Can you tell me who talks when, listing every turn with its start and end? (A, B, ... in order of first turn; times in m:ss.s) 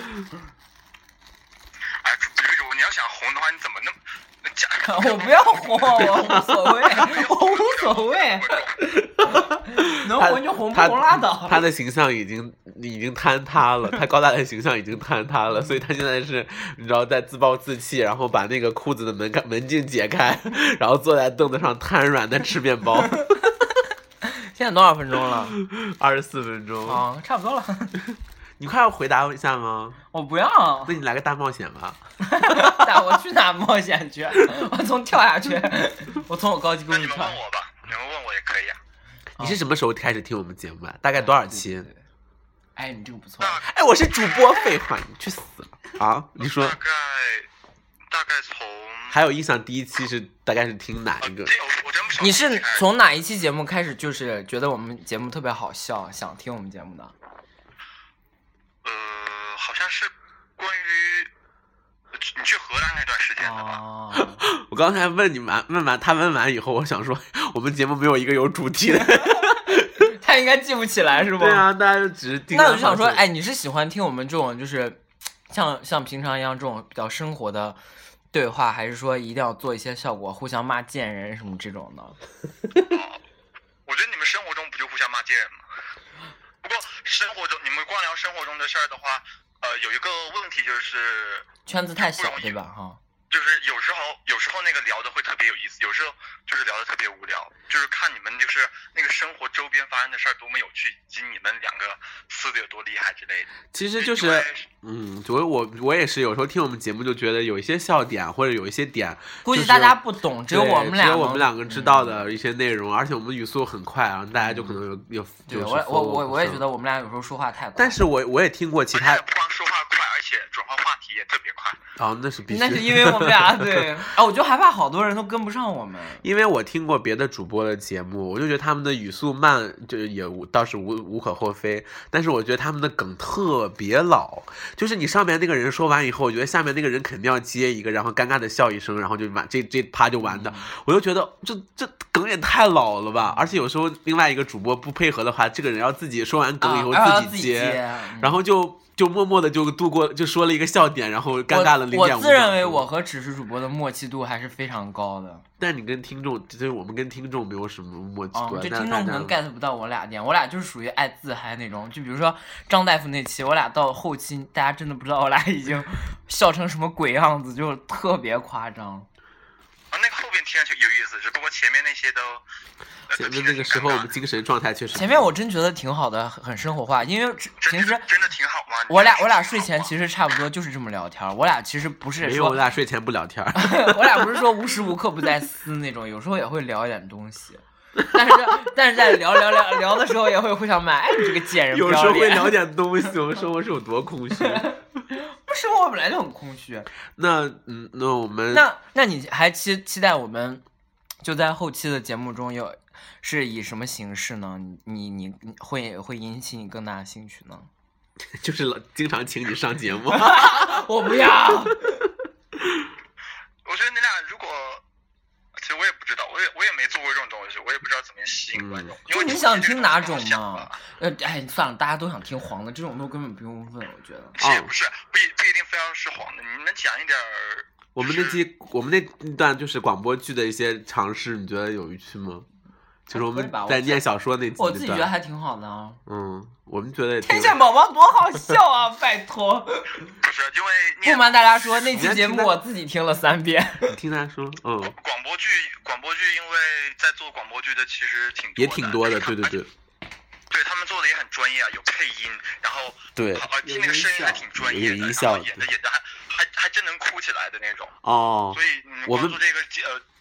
0:02.0-0:06.2 A
0:04.8-0:08.6 B
0:06.1-0:06.7 C
0:06.9-0:08.9 A
0:09.2-0:23.5 C
0:09.3-0:11.6 B
0:24.2-0:25.6 B
0:25.5-0:27.0 C
0:26.8-0:28.0 B
0:28.6-0:30.0 C
0:30.1-0:31.0 B
0:30.9-0:33.1 C
0:32.2-0:37.4 B
0:36.9-0:38.8 A
0:39.4-0:41.9 C
0:41.2-0:42.0 B
0:42.8-0:43.6 B
0:43.4-0:43.7 A
0:43.7-0:46.8 C
0:44.2-0:44.6 A
0:46.4-0:47.5 A
0:48.1-0:49.2 A
0:49.1-0:51.5 C
0:51.2-0:52.9 A
0:52.2-0:57.1 B
0:58.8-1:01.3 A
1:02.2-1:03.8 A
1:03.4-1:04.4 B
1:04.2-1:10.0 C
1:09.0-1:11.7 B
1:11.3-1:13.2 C
1:12.5-1:17.8 B
1:18.3-1:22.2 B
1:22.9-1:23.2 A
1:23.9-1:25.6 A
1:26.6-1:32.6 A
1:31.7-1:33.0 B
1:33.3-1:44.7 A
1:43.7-1:56.6 C
1:49.4-1:52.2 B
1:54.4-1:54.7 B
1:55.5-1:58.0 B
1:57.8-1:59.2 C
1:58.9-2:01.8 A
2:02.0-2:04.0 C
2:02.5-2:06.2 B
2:06.2-2:32.9 C
2:20.2-2:20.7 B
2:26.6-2:28.4 B
2:31.5-2:35.4 B
2:35.6-2:39.3 C
2:38.3-2:49.1 B
2:49.9-2:52.4 A
2:53.1-2:54.1 A
2:53.1-2:55.3 C
2:54.9-2:58.0 B
2:57.6-2:59.9 A
2:58.9-3:02.6 B
3:02.2-3:04.4 C
3:03.6-3:12.6 B
3:11.5-3:14.7 C
3:14.4-3:16.9 B
3:17.2-3:18.7 C
3:18.5-3:20.6 B
3:21.2-3:27.7 B
3:28.4-3:30.8 C
3:30.1-3:32.0 B
3:32.6-3:32.9 C
3:33.6-3:34.8 A
3:35.6-3:40.8 A
3:38.6-3:38.9 C
3:39.1-3:44.4 B
3:44.4-3:48.4 A
3:44.4-3:44.7 C
3:48.0-3:52.5 C
3:53.1-3:55.1 C
3:53.1-3:56.0 B
3:56.1-3:57.6 C
3:57.2-4:00.0 B
4:00.2-4:02.0 A
4:01.0-4:03.9 B
4:01.9-4:02.6 C
4:03.9-4:05.0 C
4:04.8-4:09.6 A
4:08.6-4:09.7 C
4:10.5-4:17.9 A
4:13.2-4:15.7 C
4:18.0-4:19.4 C
4:18.5-4:20.0 A